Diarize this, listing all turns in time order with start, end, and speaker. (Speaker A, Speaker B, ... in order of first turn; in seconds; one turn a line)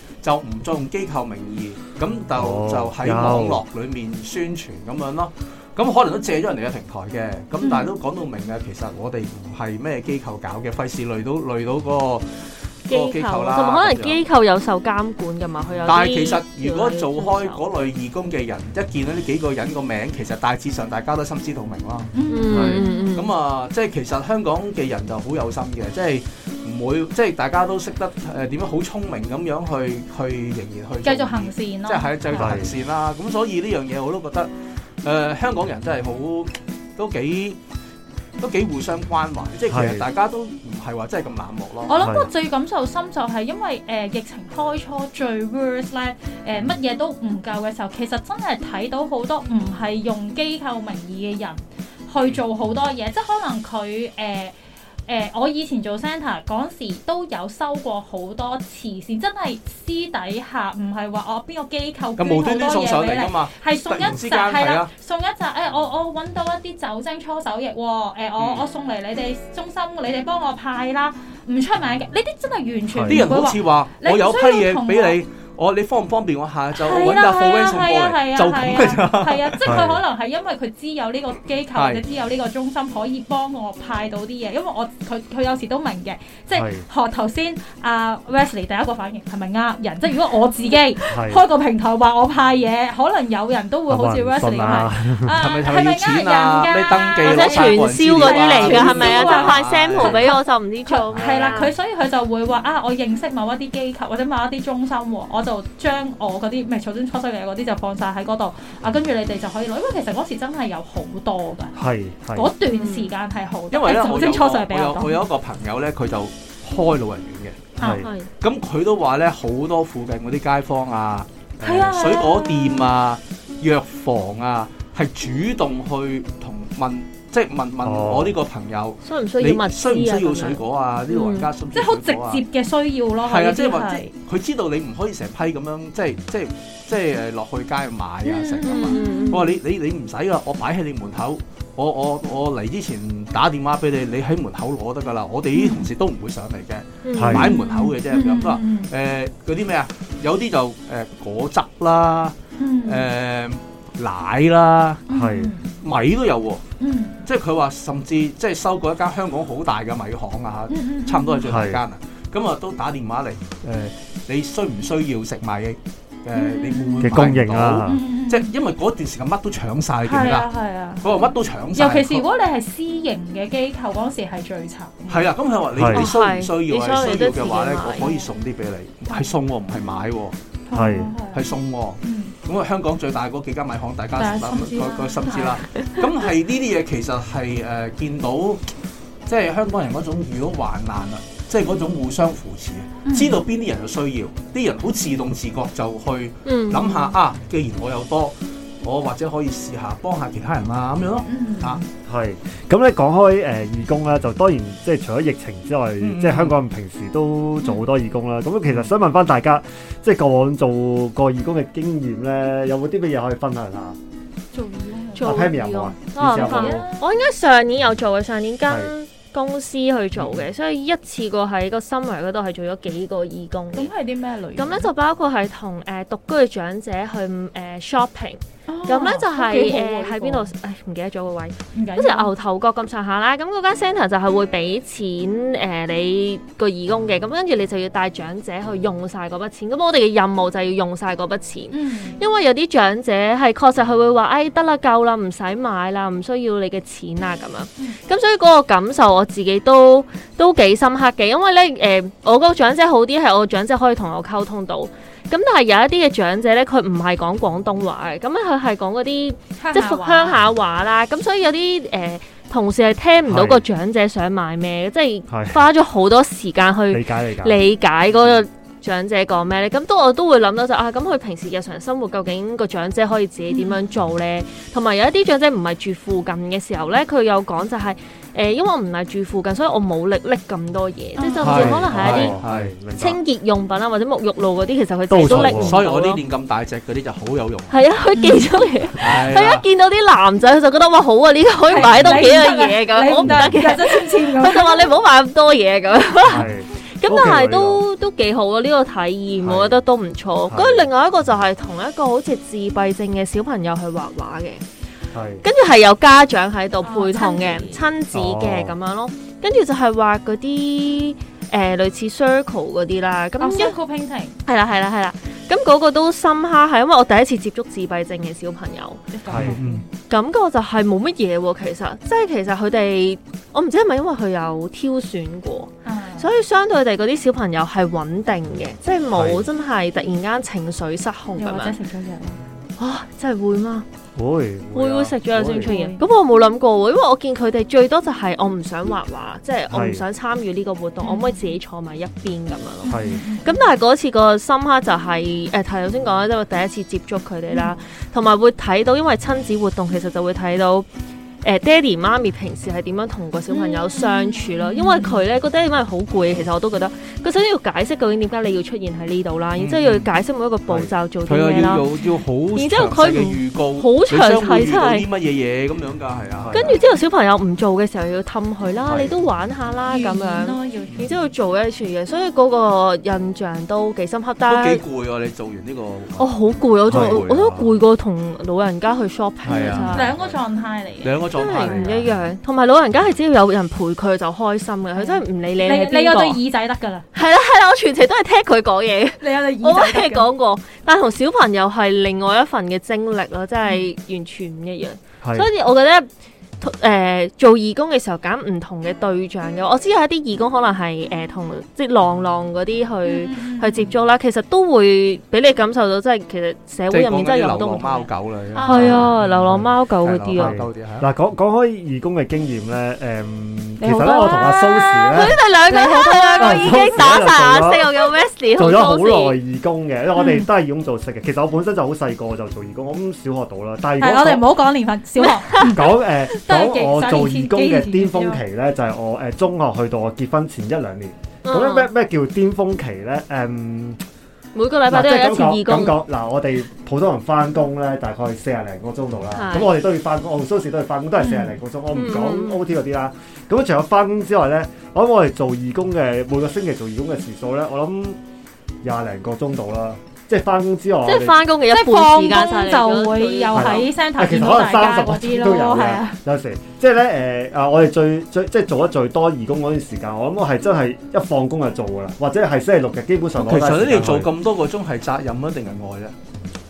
Speaker A: 0.2-14.2
Speaker B: 2.4-3.6
Speaker C: 7.6-7.9
Speaker D: 12.9-17.6
Speaker A: 15.8-34.5
Speaker C: 22.1-23.1
Speaker D: 22.3-23.3
Speaker B: 22.5-22.8
Speaker C: 31.0-32.6
Speaker B: 32.3-32.7
Speaker A: 35.0-37.6
Speaker A: 38.4-42.1
Speaker B: 39.7-40.1
Speaker C: 41.9-54.5
Speaker B: 42.0-42.3
Speaker C: 55.1-75.2
Speaker A: 62.2-64.9
Speaker A: 68.4-68.6
Speaker B: 72.9-73.2
Speaker A: 73.1-79.8
Speaker C: 76.8-111.7
Speaker B: 79.7-80.0
Speaker A: 81.8-82.0
Speaker B: 86.5-86.8
Speaker B: 91.1-91.4
Speaker B: 93.9-95.4
Speaker A: 95.4-100.3
Speaker D: 97.2-101.7
Speaker A: 101.1-101.6
Speaker B: 111.8-112.5
Speaker C: 112.3-115.2
Speaker D: 112.7-113.1
Speaker A: 113.7-117.8
Speaker C: 117.8-118.1
Speaker B: 117.8-118.1
Speaker D: 117.9-118.3
Speaker A: 118.4-132.4
Speaker C: 121.6-122.9
Speaker B: 127.8-128.4
Speaker D: 129.1-131.5
Speaker C: 131.7-134.1
Speaker A: 133.2-155.1
Speaker C: 138.2-139.3
Speaker D: 138.7-139.5
Speaker C: 145.5-145.9
Speaker D: 147.1-147.5
Speaker B: 147.2-147.5
Speaker C: 147.3-148.9
Speaker C: 152.6-153.1
Speaker C: 155.1-155.8
Speaker B: 155.1-155.5
Speaker A: 155.8-156.6
Speaker C: 156.8-157.2
Speaker A: 157.2-170.5
Speaker C: 160.7-161.5
Speaker B: 161.4-161.8
Speaker C: 166.3-167.2
Speaker B: 167.0-168.0
Speaker C: 167.9-168.5
Speaker C: 170.0-175.3
Speaker A: 171.0-172.2
Speaker A: 175.1-180.4
Speaker B: 175.8-176.1
Speaker D: 175.9-178.1
Speaker C: 179.1-179.3
Speaker C: 180.7-182.3
Speaker B: 180.7-181.1
Speaker A: 181.3-188.7
Speaker C: 184.2-185.6
Speaker A: 189.3-201.8
Speaker C: 193.1-193.4
Speaker D: 196.5-197.2
Speaker C: 201.3-201.8
Speaker B: 202.1-214.0
Speaker A: 206.0-206.6
Speaker C: 214.5-215.5
Speaker D: 215.2-223.9
Speaker B: 215.2-216.9
Speaker C: 216.3-217.1
Speaker B: 218.7-218.9
Speaker C: 223.7-224.9
Speaker D: 224.6-282.4
Speaker C: 228.7-230.5
Speaker C: 231.7-232.3
Speaker C: 241.7-242.2
Speaker C: 259.6-260.4
Speaker B: 263.3-263.6
Speaker B: 265.3-265.6
Speaker B: 266.9-267.6
Speaker C: 273.5-273.8
Speaker C: 281.2-281.8
Speaker A: 281.4-282.7
Speaker B: 281.5-283.2
Speaker D: 283.0-286.2
Speaker B: 285.1-285.8
Speaker A: 285.2-287.8
Speaker D: 287.7-304.6
Speaker C: 288.1-288.6
Speaker A: 289.0-289.6
Speaker C: 291.7-294.9
Speaker B: 293.2-293.6
Speaker B: 296.3-297.8
Speaker B: 299.4-299.8
Speaker B: 300.5-300.9
Speaker B: 305.1-305.4
Speaker D: 305.4-313.8
Speaker C: 306.8-307.9
Speaker B: 308.1-308.8
Speaker C: 313.4-314.4
Speaker D: 314.5-319.0
Speaker C: 319.1-319.9
Speaker B: 319.3-319.6
Speaker A: 319.3-319.8
Speaker D: 320.1-331.8
Speaker C: 325.9-326.3
Speaker B: 329.1-329.5
Speaker C: 331.4-332.4
Speaker D: 332.8-333.9
Speaker B: 334.2-335.8
Speaker D: 334.7-350.9
Speaker C: 335.6-336.1
Speaker B: 339.7-340.1
Speaker C: 341.0-341.5
Speaker C: 342.8-343.6
Speaker B: 342.9-343.2
Speaker C: 347.5-347.8
Speaker D: 351.4-361.9
Speaker C: 353.5-355.2
Speaker A: 359.6-360.1
Speaker B: 360.7-360.9
Speaker A: 361.2-366.8
Speaker D: 362.6-365.1
Speaker B: 366.4-366.8
Speaker D: 366.5-374.8
Speaker B: 368.9-369.1
Speaker C: 369.9-371.3
Speaker A: 374.4-377.8
Speaker D: 376.2-380.1
Speaker B: 376.9-377.4
Speaker A: 379.4-380.4
Speaker C: 379.9-381.7
Speaker A: 381.0-382.1
Speaker D: 381.4-386.4
Speaker C: 384.9-387.1
Speaker D: 387.1-396.1
Speaker C: 389.2-390.3
Speaker B: 395.2-395.5
Speaker D: 396.6-408.1
Speaker C: 403.1-403.9
Speaker A: 406.9-411.1
Speaker C: 408.5-409.1
Speaker D: 408.6-410.6
Speaker B: 410.4-415.4
Speaker C: 413.8-417.0
Speaker D: 414.3-419.4
Speaker B: 416.4-417.9
Speaker B: 418.6-424.4
Speaker C: 420.2-420.5
Speaker C: 424.0-428.4
Speaker D: 425.2-425.8
Speaker B: 425.6-434.0
Speaker D: 431.5-431.9
Speaker D: 434.6-436.0
Speaker B: 434.9-448.2
Speaker D: 439.4-439.7
Speaker C: 441.2-441.6
Speaker D: 441.9-442.6
Speaker B: 448.8-451.4
Speaker D: 451.1-453.9
Speaker C: 451.7-456.2
Speaker B: 453.5-464.3
Speaker A: 463.4-466.1